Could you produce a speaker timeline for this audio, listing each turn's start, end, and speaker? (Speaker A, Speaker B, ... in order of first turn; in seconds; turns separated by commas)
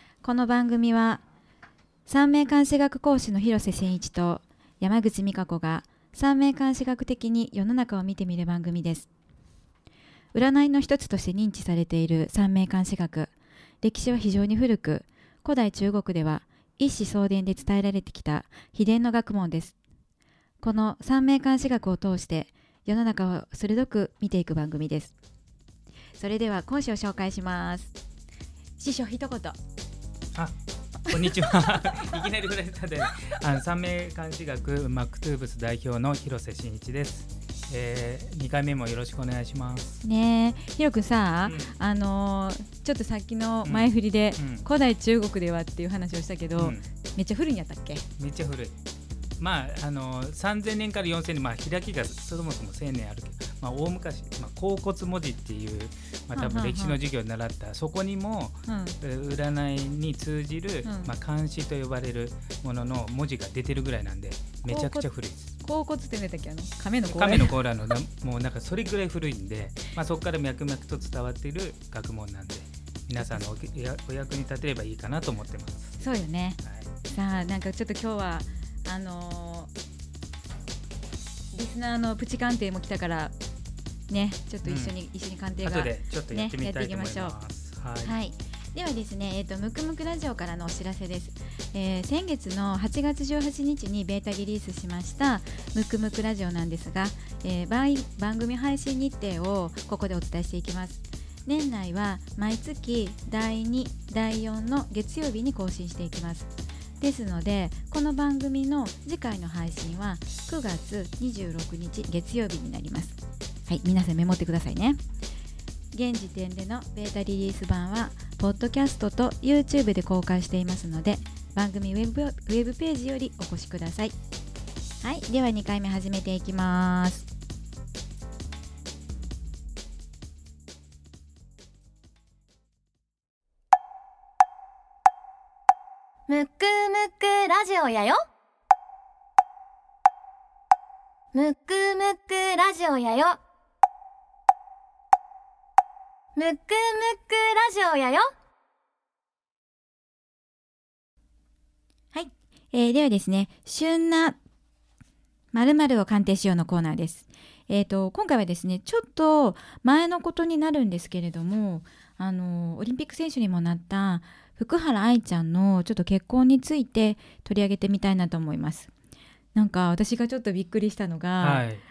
Speaker A: 0.2-1.2, Speaker A: 2.1-9.1, Speaker A: 10.3-13.3, Speaker A: 13.8-19.8, Speaker A: 20.6-25.1, Speaker A: 26.2-27.9, Speaker A: 28.8-29.6, Speaker A: 31.1-32.1, Speaker B: 31.1-40.0, Speaker A: 40.0-48.0, Speaker B: 41.5-41.7, Speaker B: 43.6-44.7, Speaker B: 46.6-46.9, Speaker B: 48.2-48.8, Speaker B: 49.4-65.5, Speaker A: 56.3-57.0, Speaker A: 58.7-59.0, Speaker A: 60.9-61.1, Speaker A: 64.7-65.1, Speaker A: 65.6-67.6, Speaker B: 67.0-75.9, Speaker A: 73.2-73.4, Speaker A: 76.0-79.7, Speaker B: 76.6-76.9, Speaker A: 81.5-83.3, Speaker A: 84.1-87.4, Speaker B: 84.6-85.0, Speaker B: 85.6-88.2, Speaker A: 88.0-115.0, Speaker A: 115.9-124.1, Speaker A: 125.0-127.3, Speaker C: 136.3-138.2, Speaker C: 141.3-143.4, Speaker C: 146.3-148.3, Speaker A: 152.1-154.4, Speaker A: 155.5-168.9, Speaker A: 169.6-171.7, Speaker B: 171.4-171.8